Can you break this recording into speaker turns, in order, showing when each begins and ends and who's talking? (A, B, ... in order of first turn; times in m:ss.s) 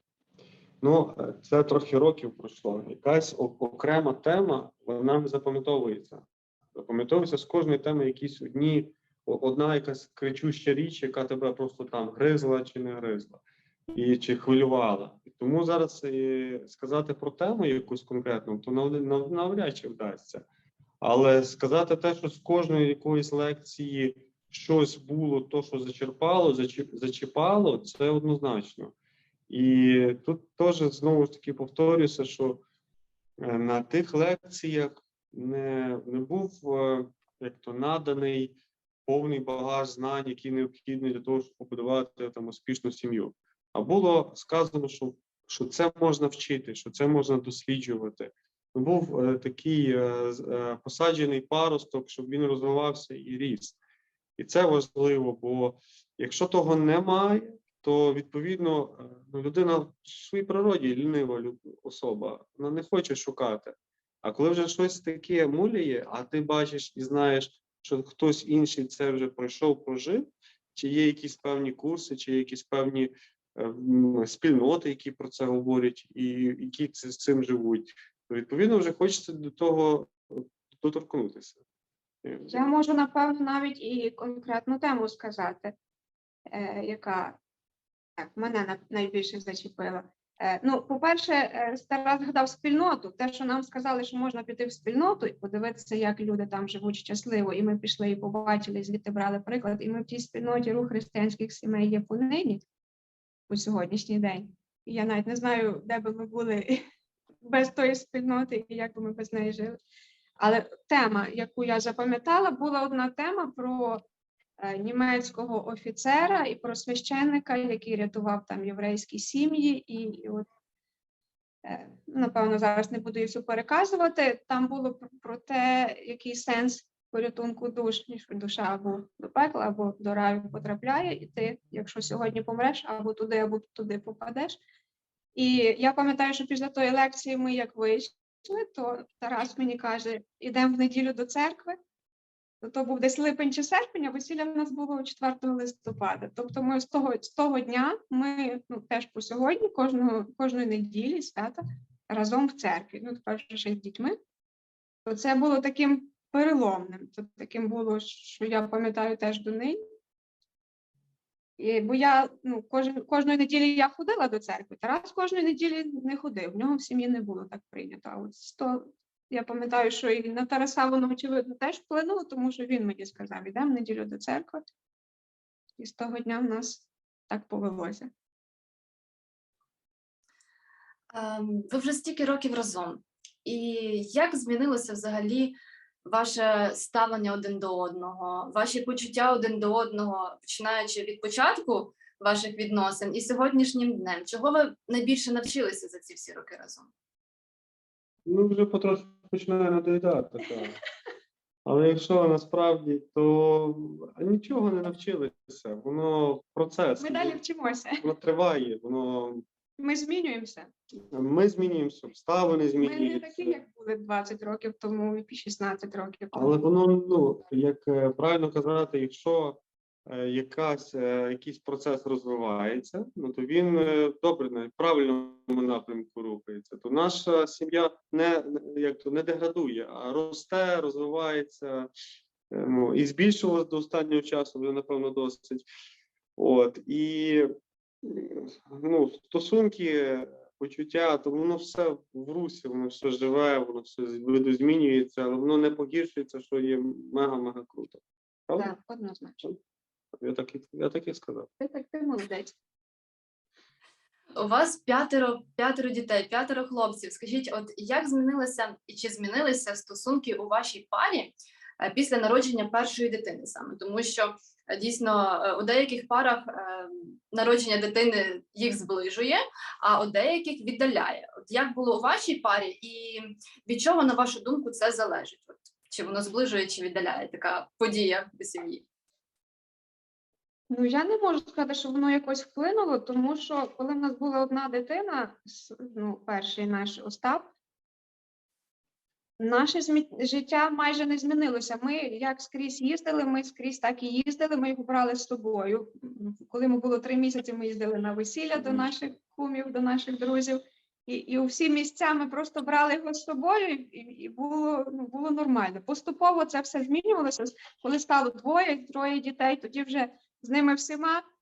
0:00.8-0:13.4 A
0:13.9-0:20.4 A
0:21.0-0:28.9 A
0:29.5-0:32.6 A
0:33.4-0:53.8 A
0:54.4-1:21.6 A
1:22.2-1:22.7 A
1:22.5-1:25.7 B
1:26.5-1:27.4 B
1:28.2-1:42.6 B
1:43.5-1:46.8 B
1:47.4-1:49.8 B
1:50.4-1:54.0 B
1:54.6-2:00.4 B
2:01.6-2:14.6 B
2:15.4-2:21.8 B
2:22.6-2:34.2 B
2:35.0-2:39.8 B
2:41.6-2:54.6 B
2:55.8-2:58.1 B
3:01.1-3:16.9 C
3:18.2-3:20.8 A
3:21.6-3:27.4 A
3:27.0-3:28.0 B
3:28.0-3:29.4 A
3:29.8-3:30.7 B
3:31.1-3:33.6 A
3:32.8-3:36.6 B
3:36.3-3:51.9 A
3:52.5-3:55.6 A
3:56.4-3:57.5 A
3:58.0-4:08.7 A
4:08.6-4:09.4 B
4:10.2-4:11.5 A
4:11.6-4:12.5 B
4:14.4-4:38.8 C
4:40.7-4:47.5 B
4:49.4-5:11.2 B
4:58.5-4:58.9 A